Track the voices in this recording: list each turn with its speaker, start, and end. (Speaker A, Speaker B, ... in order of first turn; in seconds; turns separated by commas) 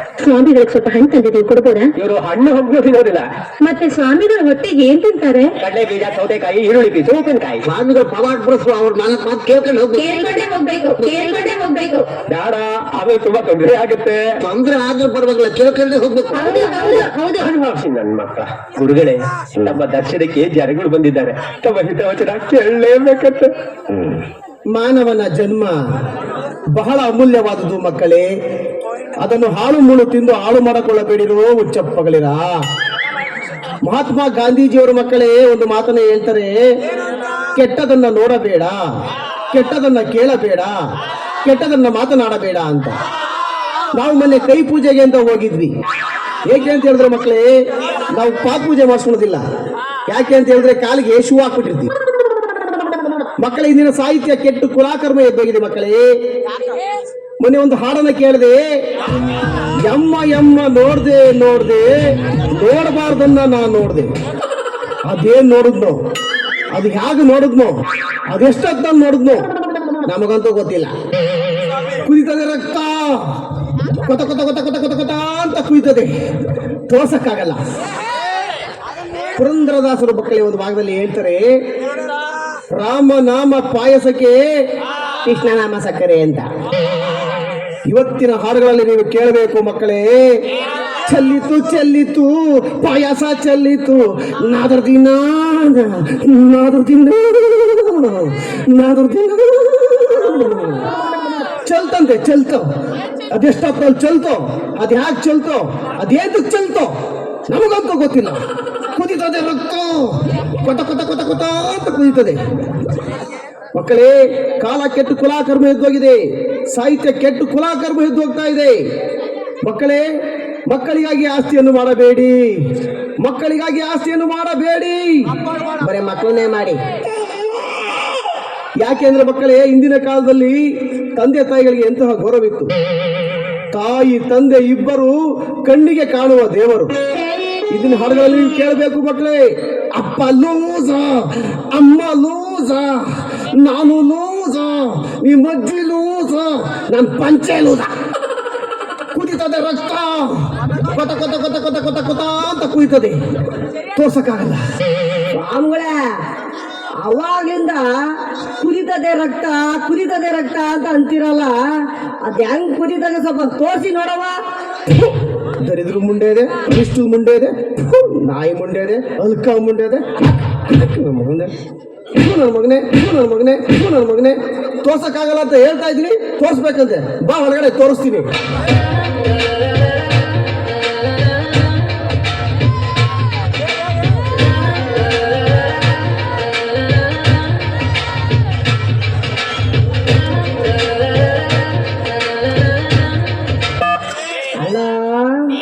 Speaker A: 0.2-1.9, Speaker B: 2.0-3.2, Speaker A: 3.6-5.5, Speaker B: 5.6-7.7, Speaker C: 7.7-10.3, Speaker A: 10.0-12.1, Speaker C: 11.0-11.4, Speaker B: 12.3-14.2, Speaker C: 14.4-17.0, Speaker A: 16.4-17.5, Speaker B: 16.7-24.2, Speaker D: 24.7-25.8, Speaker D: 26.7-28.3, Speaker D: 29.2-32.5, Speaker D: 33.8-36.6, Speaker D: 37.5-38.8, Speaker D: 39.5-40.8, Speaker D: 41.4-43.0, Speaker D: 43.9-45.7, Speaker D: 46.5-49.4, Speaker D: 50.1-51.9, Speaker D: 53.4-56.1, Speaker D: 57.4-58.8, Speaker D: 59.8-64.1, Speaker D: 65.0-66.0, Speaker D: 66.7-69.5, Speaker D: 70.1-70.9, Speaker D: 72.0-73.4, Speaker D: 74.0-76.1, Speaker D: 76.9-77.6, Speaker D: 79.3-81.6, Speaker D: 82.7-84.4, Speaker E: 85.3-86.4, Speaker D: 85.9-86.4, Speaker D: 87.8-90.4, Speaker D: 91.0-100.9, Speaker D: 101.6-102.7, Speaker D: 103.3-106.9, Speaker D: 107.5-108.4, Speaker D: 108.9-112.4, Speaker D: 113.7-118.8, Speaker D: 119.6-120.0, Speaker D: 120.7-122.7, Speaker D: 123.2-126.8, Speaker D: 128.8-132.7, Speaker D: 133.7-136.9, Speaker D: 137.7-139.4, Speaker D: 139.9-147.9, Speaker D: 149.1-153.2, Speaker D: 153.9-154.6, Speaker E: 155.3-155.9, Speaker E: 157.0-164.4, Speaker D: 165.0-171.5, Speaker D: 172.1-178.3, Speaker E: 194.6-195.5